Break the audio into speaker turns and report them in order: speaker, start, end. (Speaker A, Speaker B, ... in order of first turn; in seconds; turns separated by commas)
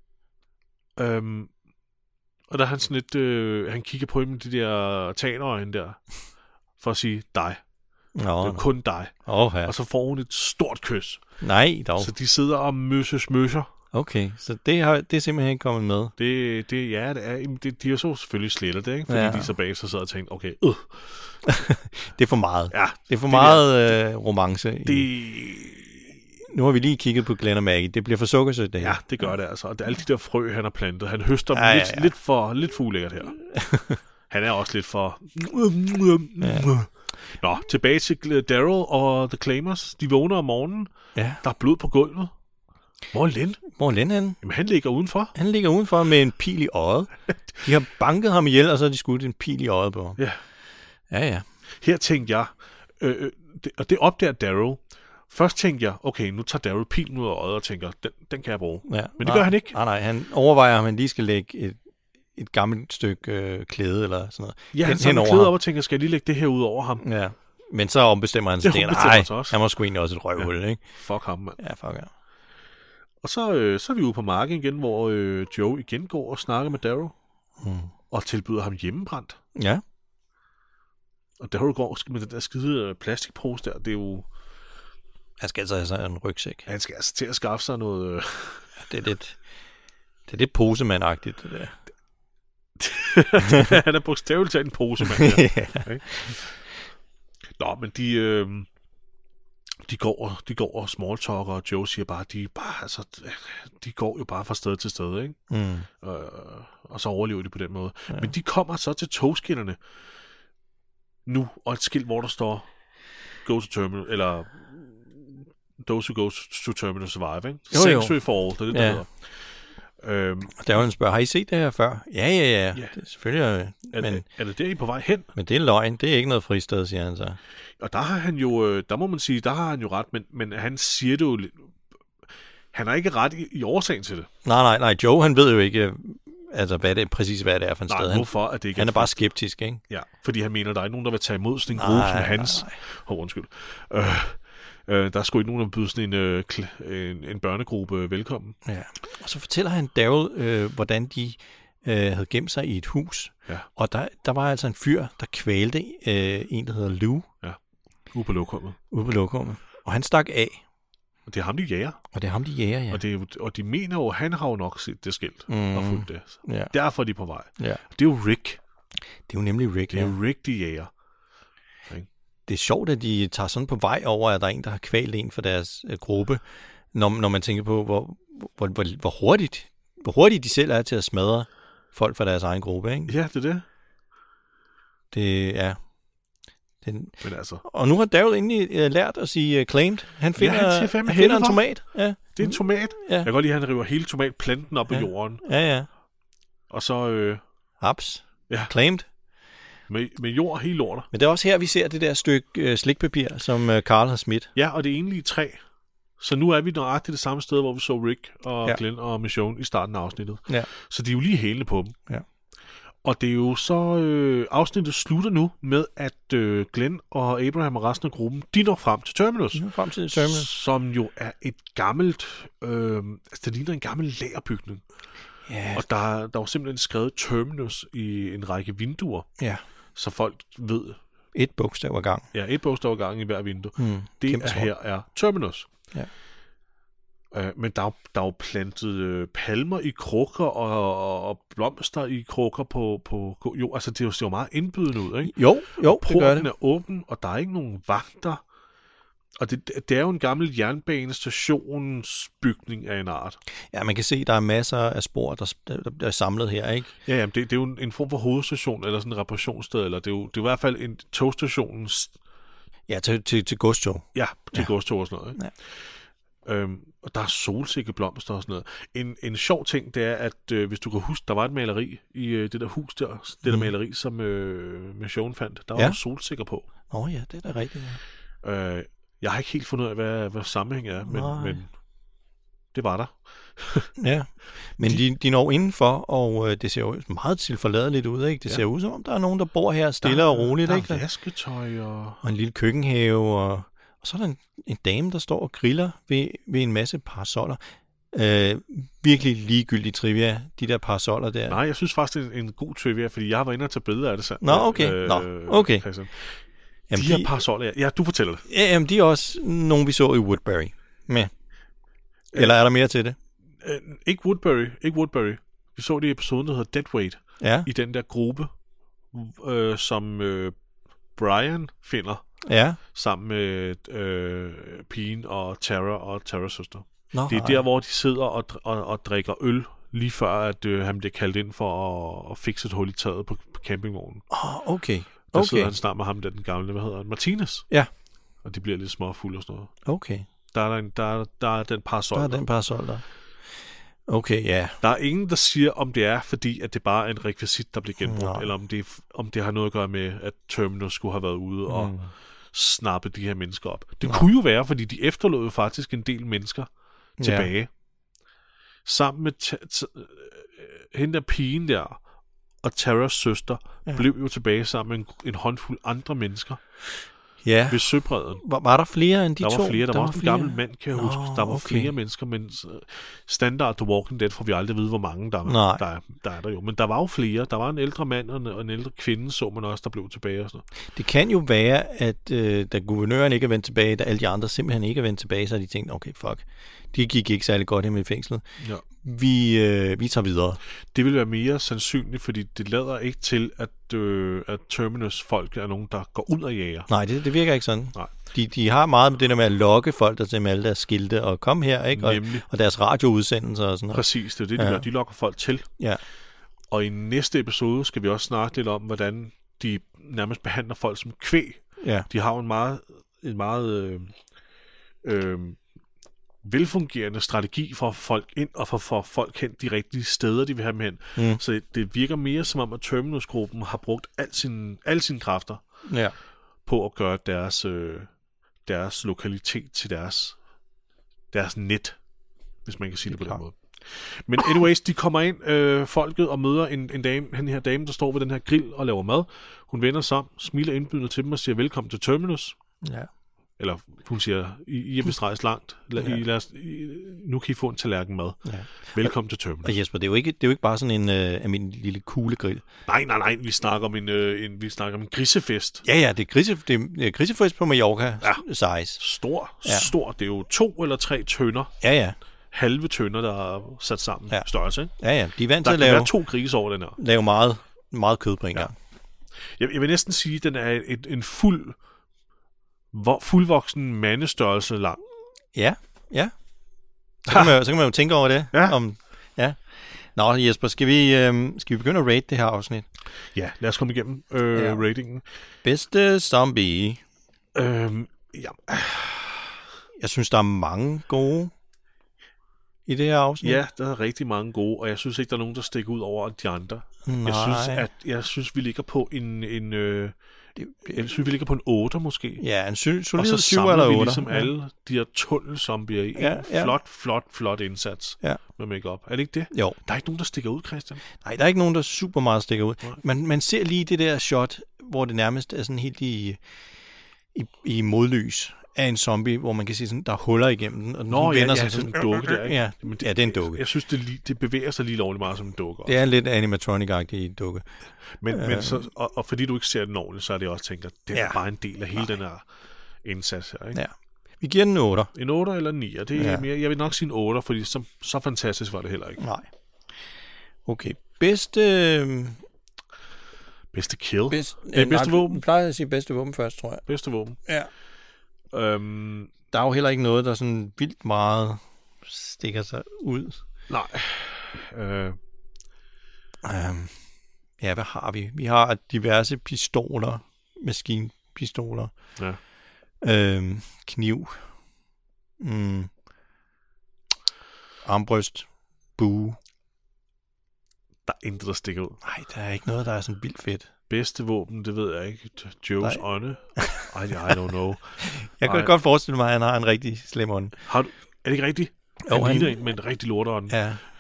Speaker A: 1.0-1.5, Speaker A: 2.5-6.0, Speaker A: 6.8-7.6, Speaker B: 8.2-9.7, Speaker A: 8.4-9.1, Speaker A: 9.7-11.2, Speaker B: 11.4-12.1, Speaker A: 12.0-13.7, Speaker B: 13.9-16.1, Speaker A: 16.2-21.3, Speaker B: 19.1-19.5, Speaker B: 21.4-25.1, Speaker A: 22.7-23.7, Speaker A: 24.9-26.1, Speaker B: 26.5-29.3, Speaker A: 28.8-33.4, Speaker B: 31.5-32.1, Speaker B: 33.5-34.0, Speaker A: 34.3-40.9, Speaker B: 36.4-36.7, Speaker B: 41.1-41.4, Speaker A: 41.4-42.3, Speaker A: 43.1-43.6, Speaker B: 43.7-44.4, Speaker A: 44.4-45.4, Speaker B: 45.4-50.2, Speaker B: 51.1-51.5, Speaker A: 51.8-59.8, Speaker B: 58.9-61.8, Speaker B: 62.4-65.5, Speaker A: 64.7-67.0, Speaker B: 67.0-70.8, Speaker A: 68.6-69.6, Speaker A: 70.4-71.6, Speaker B: 71.6-72.1, Speaker A: 73.2-77.1, Speaker B: 77.6-77.9, Speaker A: 78.1-79.4, Speaker B: 79.5-79.8, Speaker A: 81.4-84.3, Speaker B: 85.4-86.7, Speaker A: 86.7-88.7, Speaker B: 88.8-89.4, Speaker B: 90.3-91.8, Speaker A: 92.8-96.4, Speaker B: 93.5-93.7, Speaker B: 95.0-96.4, Speaker A: 97.6-98.7, Speaker A: 99.8-105.4, Speaker B: 105.5-105.9, Speaker A: 106.0-109.8, Speaker A: 111.3-112.7, Speaker A: 113.4-119.5, Speaker B: 117.7-119.0, Speaker A: 120.0-120.6, Speaker B: 120.5-124.2, Speaker A: 123.9-125.3, Speaker B: 125.3-127.4, Speaker A: 127.8-131.7, Speaker A: 132.7-134.3, Speaker B: 134.4-139.8, Speaker A: 137.9-139.2, Speaker A: 139.9-148.6, Speaker B: 141.7-142.8, Speaker B: 148.7-157.3, Speaker A: 158.1-158.8, Speaker B: 158.9-160.6, Speaker A: 161.3-162.0, Speaker B: 162.1-163.0, Speaker A: 162.9-168.6, Speaker B: 165.5-166.7, Speaker B: 169.3-170.2, Speaker A: 169.9-170.9, Speaker B: 172.5-183.1, Speaker A: 183.1-183.6, Speaker B: 185.1-185.8, Speaker B: 186.8-193.3, Speaker A: 187.2-187.6, Speaker A: 190.4-191.7, Speaker A: 192.3-195.4, Speaker B: 194.9-195.9, Speaker A: 196.7-197.4, Speaker B: 197.8-199.1, Speaker A: 199.9-201.1, Speaker B: 201.1-204.5, Speaker A: 204.6-205.6, Speaker A: 206.2-212.0, Speaker A: 213.0-224.8, Speaker B: 219.5-220.5, Speaker B: 225.5-225.8, Speaker A: 225.7-229.3, Speaker A: 229.9-231.0, Speaker B: 231.3-232.3, Speaker A: 232.3-235.7, Speaker B: 233.8-234.7, Speaker A: 237.3-248.4, Speaker B: 245.2-246.5, Speaker A: 249.4-253.4, Speaker B: 253.7-256.9, Speaker A: 257.1-262.1, Speaker B: 262.9-264.7, Speaker A: 264.1-265.4, Speaker A: 266.4-276.7, Speaker B: 273.4-273.7, Speaker B: 276.9-278.0, Speaker A: 278.4-281.7, Speaker B: 281.1-281.6, Speaker A: 282.7-283.9, Speaker B: 284.0-291.0, Speaker A: 290.0-292.2, Speaker B: 292.2-297.6, Speaker B: 298.1-301.6, Speaker A: 301.5-306.4, Speaker B: 304.4-305.9, Speaker B: 306.9-307.3, Speaker A: 306.9-308.4, Speaker B: 308.5-311.3, Speaker B: 312.3-313.2, Speaker A: 313.6-318.5, Speaker B: 317.4-317.7, Speaker A: 319.1-320.6, Speaker A: 321.1-322.2, Speaker B: 322.5-322.8, Speaker A: 322.9-334.2, Speaker B: 327.1-327.6, Speaker B: 334.3-335.7, Speaker A: 335.3-337.7, Speaker A: 338.4-339.7, Speaker B: 339.9-340.3, Speaker A: 340.5-342.4, Speaker B: 342.1-343.1, Speaker B: 344.1-344.8, Speaker A: 344.8-351.9, Speaker B: 348.0-348.5, Speaker B: 351.7-352.1, Speaker A: 352.5-356.7, Speaker B: 357.2-357.5, Speaker A: 357.2-357.7, Speaker A: 358.9-362.0, Speaker A: 362.6-366.6, Speaker B: 367.4-371.9, Speaker A: 367.7-368.4, Speaker A: 369.4-380.6, Speaker B: 375.5-375.8, Speaker B: 380.9-390.6, Speaker A: 390.9-396.9, Speaker B: 396.9-404.9, Speaker A: 401.9-402.4, Speaker A: 403.9-405.6, Speaker A: 406.7-414.2, Speaker B: 411.8-412.1, Speaker A: 415.0-415.6, Speaker A: 416.4-425.6, Speaker B: 421.2-421.4, Speaker B: 425.9-426.1, Speaker A: 426.7-428.1, Speaker A: 428.7-430.4, Speaker A: 431.3-432.0, Speaker A: 432.6-442.6, Speaker B: 433.1-433.4, Speaker B: 442.8-443.1, Speaker A: 443.6-449.8, Speaker B: 446.0-446.2, Speaker B: 448.4-452.7, Speaker A: 452.9-455.9, Speaker B: 455.9-459.0, Speaker A: 459.0-461.7, Speaker B: 459.6-459.9, Speaker B: 461.8-462.2, Speaker A: 462.5-464.9, Speaker B: 464.3-466.1, Speaker A: 465.6-467.0, Speaker B: 467.0-468.8, Speaker A: 469.6-471.8, Speaker A: 472.9-475.0, Speaker B: 475.5-476.3, Speaker A: 477.3-477.6, Speaker B: 477.3-482.9, Speaker A: 478.5-478.8, Speaker A: 483.4-485.2, Speaker B: 484.5-484.8, Speaker B: 485.6-487.0, Speaker A: 487.6-489.6, Speaker B: 490.0-491.5, Speaker B: 492.9-493.6, Speaker A: 493.4-500.1, Speaker B: 497.1-497.9, Speaker B: 500.6-501.1, Speaker A: 500.8-502.4, Speaker B: 502.4-504.5, Speaker A: 503.2-511.0, Speaker B: 506.2-506.7, Speaker B: 509.5-509.8, Speaker B: 511.2-516.4, Speaker B: 517.3-523.6, Speaker A: 521.1-526.0, Speaker B: 525.9-527.7, Speaker A: 528.1-532.5, Speaker B: 528.3-528.9, Speaker B: 531.1-531.4, Speaker A: 533.0-533.8, Speaker B: 533.8-535.1, Speaker A: 535.1-539.2, Speaker B: 536.1-536.5, Speaker B: 539.2-539.5, Speaker B: 540.7-542.4, Speaker A: 543.7-545.4, Speaker B: 544.3-546.9, Speaker A: 546.9-547.4, Speaker A: 548.5-549.3, Speaker B: 549.5-553.4, Speaker A: 553.7-555.2, Speaker B: 556.4-557.0, Speaker B: 557.6-561.9, Speaker B: 563.0-564.5, Speaker B: 565.4-565.9, Speaker B: 567.9-569.4, Speaker A: 571.1-572.0, Speaker B: 572.0-573.7, Speaker A: 573.9-578.7, Speaker B: 576.6-577.3, Speaker B: 578.0-580.6, Speaker A: 580.6-583.6, Speaker B: 582.1-582.7, Speaker B: 583.5-583.8